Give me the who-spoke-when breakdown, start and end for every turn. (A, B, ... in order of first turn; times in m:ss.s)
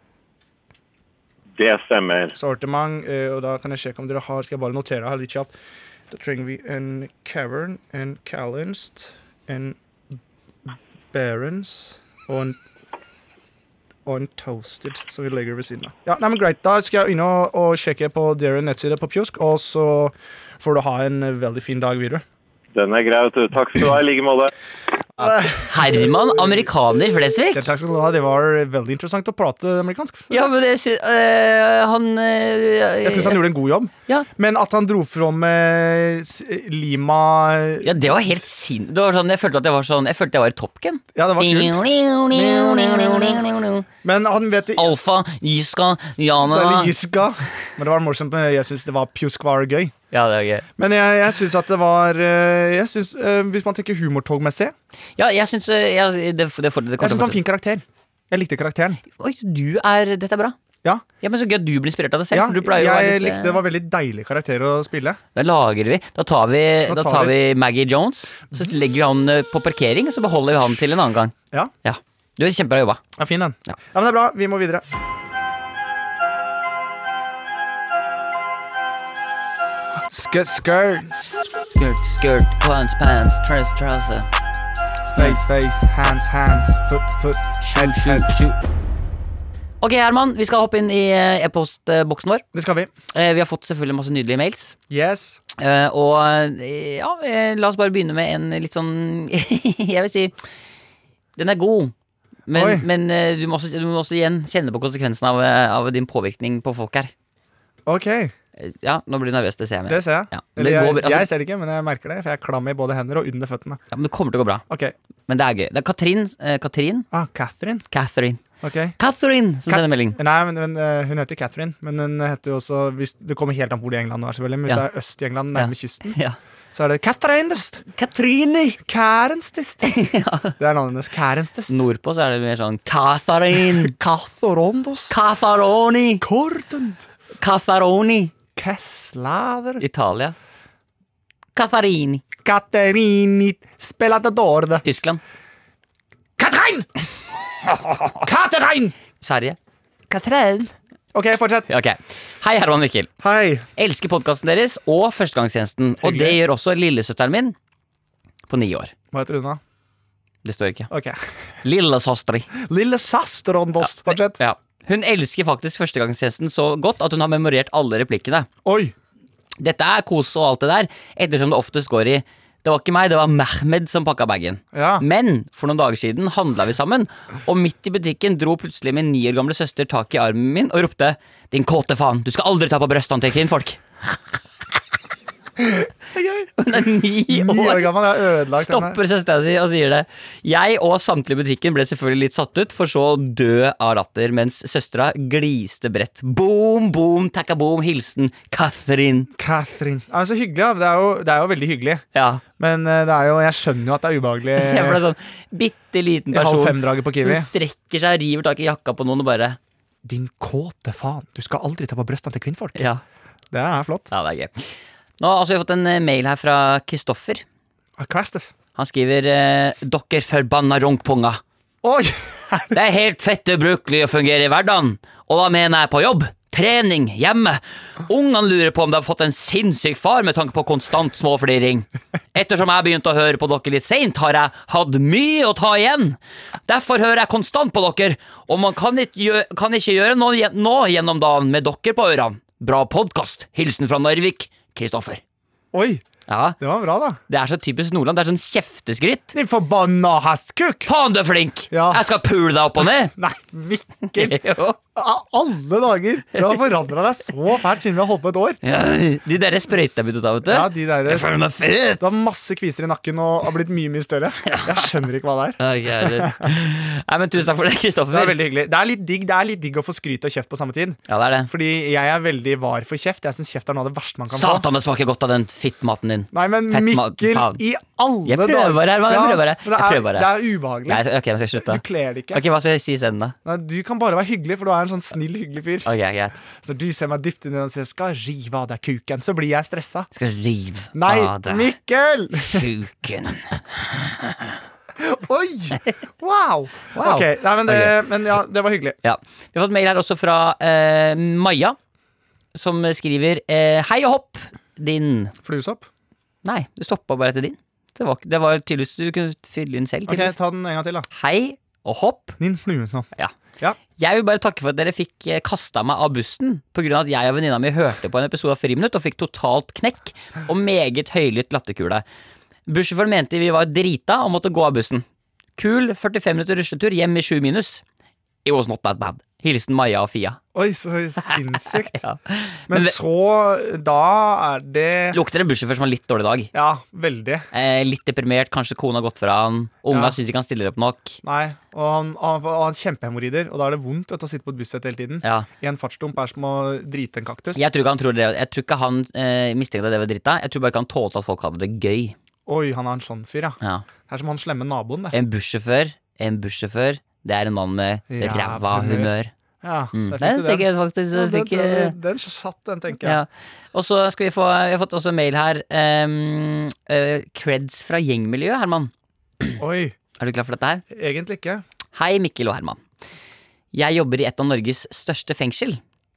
0:01.6-0:02.3 A
0:02.4-0:05.5 B
0:06.1-0:09.8 B
0:11.1-0:12.6 B
0:14.0-0:22.2 B
0:22.7-0:24.5 A
0:25.2-0:26.6 B
0:25.5-0:27.7 C
0:27.5-0:30.4 B
0:30.3-0:33.4 C
0:33.0-0:38.1 B
0:37.8-0:43.8 C
0:41.1-0:43.4 B
0:44.0-0:44.9 B
0:44.8-0:46.9 C
0:46.4-0:49.9 B
0:50.1-0:50.6 C
0:50.8-0:54.7 B
0:55.2-0:57.4 C
0:57.0-0:59.0 B
0:59.2-1:00.5 C
1:01.2-1:03.6 C
1:02.3-1:05.2 B
1:05.3-1:13.0 C
1:06.9-1:07.3 B
1:13.2-1:14.8 B
1:20.0-1:21.2 B
1:21.7-1:24.3 C
1:25.1-1:25.4 C
1:25.1-1:28.3 B
1:27.6-1:28.6 C
1:29.8-1:32.4 C
1:32.5-1:32.9 B
1:33.1-1:34.7 C
1:34.9-1:35.4 B
1:35.6-1:40.3 C
1:41.4-1:41.9 C
1:42.5-1:47.1 C
1:42.5-1:42.8 B
1:47.8-1:48.3 B
1:48.6-1:51.3 C
1:49.9-1:53.8 B
1:53.9-1:54.6 C
1:54.7-1:54.9 B
1:55.3-1:57.1 C
1:57.1-1:57.9 B
1:57.9-1:58.4 C
1:58.6-1:59.0 B
1:59.0-2:00.2 C
1:59.7-2:06.2 B
2:05.5-2:06.4 C
2:06.7-2:07.8 B
2:07.9-2:08.8 C
2:08.8-2:09.9 B
2:09.8-2:10.5 C
2:10.6-2:11.8 B
2:11.7-2:13.9 C
2:13.6-2:15.2 B
2:15.1-2:16.2 C
2:16.2-2:17.1 B
2:17.4-2:18.3 C
2:18.6-2:19.8 B
2:19.8-2:20.3 C
2:21.5-2:22.2 C
2:22.4-2:24.8 B
2:24.8-2:25.2 C
2:26.4-2:26.9 B
2:28.2-2:28.9 B
2:29.2-2:29.6 C
2:30.1-2:31.7 B
2:31.7-2:33.1 C
2:33.2-2:33.6 B
2:33.8-2:37.5 C
2:36.0-2:36.4 B
2:38.5-2:38.9 C
2:39.1-2:39.6 B
2:40.4-2:40.9 C
2:40.9-2:41.3 B
2:41.6-2:42.5 C
2:42.6-2:44.4 B
2:43.8-2:48.5 C
2:48.6-2:48.9 B
2:49.6-3:04.2 C
2:54.7-2:55.0 B
3:05.6-3:09.0 B
3:06.6-3:19.3 C
3:19.4-3:22.0 B
3:22.1-3:22.4 C
3:22.6-3:25.0 B
3:24.6-3:29.6 C
3:26.3-3:27.5 B
3:30.0-3:32.9 B
3:32.8-3:33.0 C
3:33.5-3:34.1 B
3:34.1-3:37.4 C
3:38.0-3:38.5 B
3:38.8-3:41.4 C
3:41.8-3:42.7 B
3:42.7-4:05.2 C
4:05.7-4:06.0 B
4:06.3-4:06.6 C
4:06.6-4:07.2 B
4:07.3-4:09.3 C
4:09.3-4:10.9 B
4:10.8-4:13.1 C
4:11.7-4:12.0 B
4:13.1-4:14.4 B
4:14.1-4:14.8 C
4:14.9-4:18.6 B
4:18.6-4:22.0 C
4:20.4-4:21.3 B
4:22.0-4:26.6 B
4:24.5-4:24.9 C
4:25.6-4:28.4 C
4:28.1-4:34.7 B
4:31.1-4:31.5 C
4:34.3-4:37.6 C
4:36.3-4:42.4 B
4:38.2-4:40.3 C
4:40.8-4:41.8 C
4:42.3-4:43.3 C
4:43.4-4:45.9 B
4:45.8-4:46.4 C
4:46.5-4:50.1 B
4:50.1-4:51.7 C
4:50.9-4:52.7 B
4:52.4-4:54.6 C
4:55.0-4:59.0 B
4:56.9-4:58.0 C
4:59.0-5:01.8 C
5:02.5-5:05.3 C
5:05.4-5:05.9 B
5:06.4-5:10.3 C
5:10.1-5:11.1 B
5:11.1-5:12.4 C
5:12.4-5:13.8 B
5:14.0-5:22.0 C
5:22.7-5:25.0 C
5:25.6-5:27.8 C
5:28.4-5:30.4 C
5:30.5-5:32.0 B
5:31.3-5:32.9 C
5:32.7-5:35.2 B
5:35.1-5:36.5 C
5:36.5-5:37.5 B
5:37.5-5:41.2 C
5:39.9-5:40.2 B
5:41.2-5:47.6 B
5:45.2-5:45.5 C
5:47.5-5:52.1 C
5:52.4-5:55.1 B
5:55.1-5:59.3 C
5:58.1-5:59.1 B
5:59.6-6:03.2 B
5:59.9-6:02.0 C
6:03.0-6:08.9 C
6:09.6-6:10.0 B
6:10.2-6:10.8 C
6:10.9-6:11.6 B
6:11.9-6:12.8 C
6:13.7-6:15.8 C